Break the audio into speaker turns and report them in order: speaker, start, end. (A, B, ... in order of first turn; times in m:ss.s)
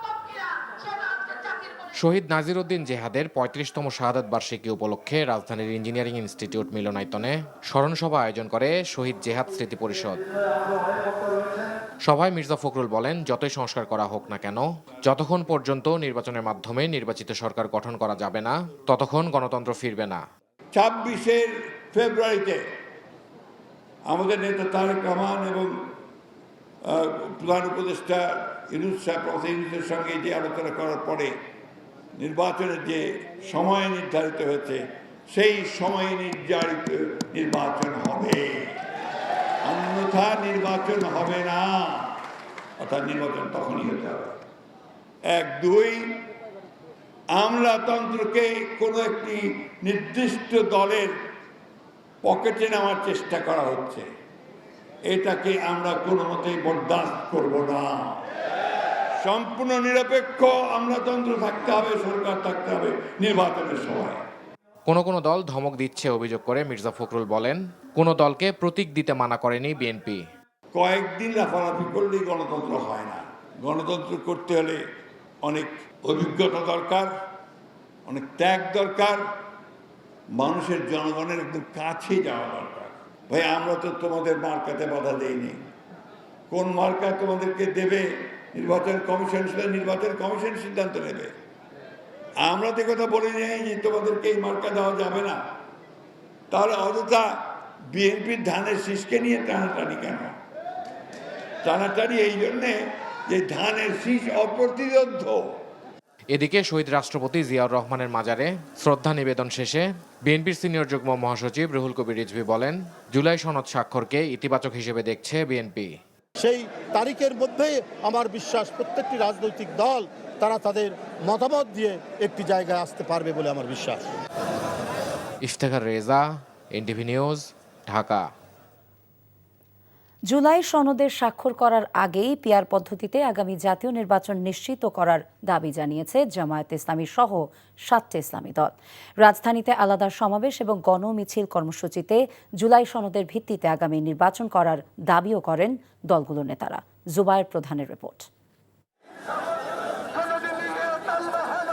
0:02.0-0:10.2 A
0:12.0-0:20.2 A
0:20.7-0:22.6 B
0:24.1-0:25.7 B
0:26.9-0:31.3 B
0:32.2-0:38.8 B
0:39.6-0:42.1 B
0:42.8-0:44.4 B
0:45.3-0:46.2 B
0:47.3-0:51.1 B
0:52.2-0:54.1 B
0:55.0-0:58.2 B
0:59.2-1:04.2 B
1:04.9-1:10.2 A
1:10.7-1:14.8 B
1:15.4-1:17.1 B
1:18.0-1:19.2 B
1:20.3-1:25.6 B
1:26.5-1:31.3 B
1:32.4-1:35.4 B
1:36.5-1:37.4 B
1:37.9-1:40.3 B
1:41.6-1:42.8 B
1:43.3-1:45.4 B
1:46.3-1:55.9 A
1:56.4-2:03.9 C
2:05.4-2:08.2 A
2:10.3-2:28.3 D